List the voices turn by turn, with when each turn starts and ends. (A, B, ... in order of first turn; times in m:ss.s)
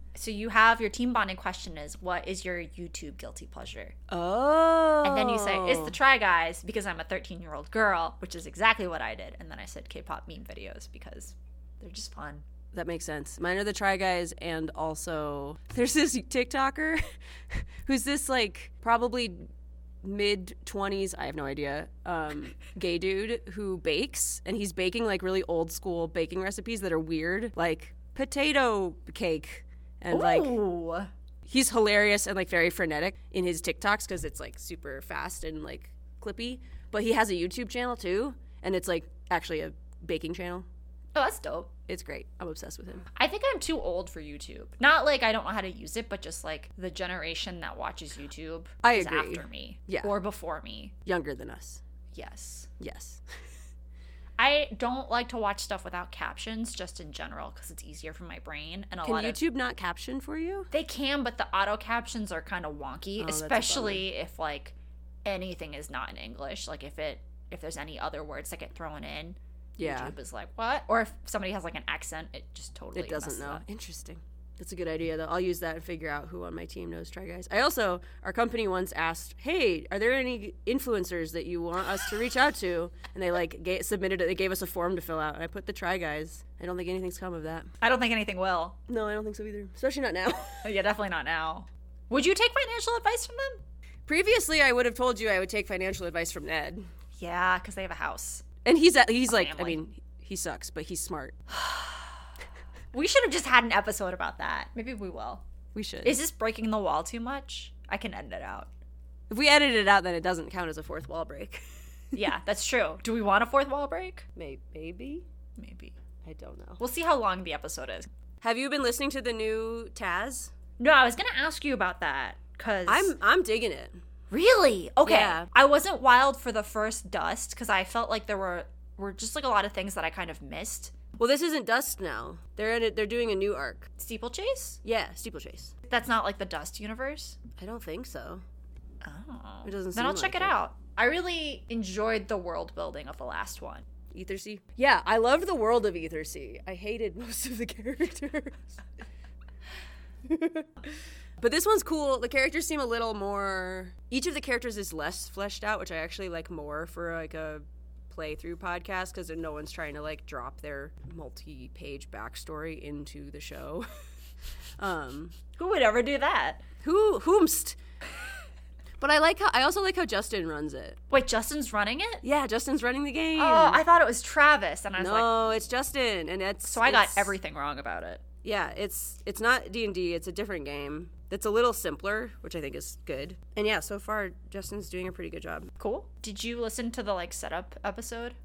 0:00.1-0:04.0 A
0:04.1-0:06.0 B
0:05.0-0:12.4 A
0:12.7-0:17.0 B
0:17.5-0:19.4 B
0:20.0-0:30.6 B
0:30.1-0:31.1 A
0:31.5-0:40.6 B
0:41.1-0:41.7 A
0:41.9-0:43.0 B
0:43.2-0:50.9 A
0:48.8-0:50.1 B
0:51.0-0:51.8 B
0:52.1-0:52.7 A
0:52.8-0:53.2 B
0:54.4-0:59.4 A
0:59.0-1:00.7 B
1:00.7-1:13.6 A
1:03.2-1:04.1 B
1:09.8-1:10.1 B
1:12.9-1:27.7 B
1:27.8-1:28.8 A
1:28.9-1:30.6 B
1:30.6-1:33.6 A
1:34.1-1:36.8 B
1:37.2-1:38.4 A
1:38.6-1:41.4 B
1:39.3-1:39.8 A
1:41.5-1:42.2 A
1:42.9-1:45.4 A
1:45.7-1:46.2 B
1:46.0-1:48.7 A
1:49.3-1:51.6 B
1:52.1-1:54.2 A
1:54.4-1:55.2 B
1:55.6-1:55.9 A
1:56.2-1:56.8 B
1:56.8-1:58.1 A
1:58.4-2:00.5 B
2:00.8-2:03.1 A
2:02.9-2:04.0 B
2:04.3-2:11.0 A
2:05.0-2:05.5 B
2:11.2-2:13.9 B
2:14.0-2:14.8 A
2:14.8-2:15.7 B
2:15.9-2:17.4 A
2:17.6-2:18.4 B
2:19.0-2:23.8 A
2:19.6-2:20.6 B
2:24.1-2:28.8 B
2:30.3-2:30.6 B
2:31.4-2:43.9 B
2:44.8-2:45.3 B
2:45.6-2:46.6 A
2:46.8-2:47.8 B
2:49.0-2:51.0 B
2:51.1-2:52.2 A
2:52.2-2:53.8 B
2:53.3-2:55.6 A
2:55.0-2:57.3 B
2:56.6-2:58.2 A
2:58.4-3:05.7 B
3:05.8-3:08.4 A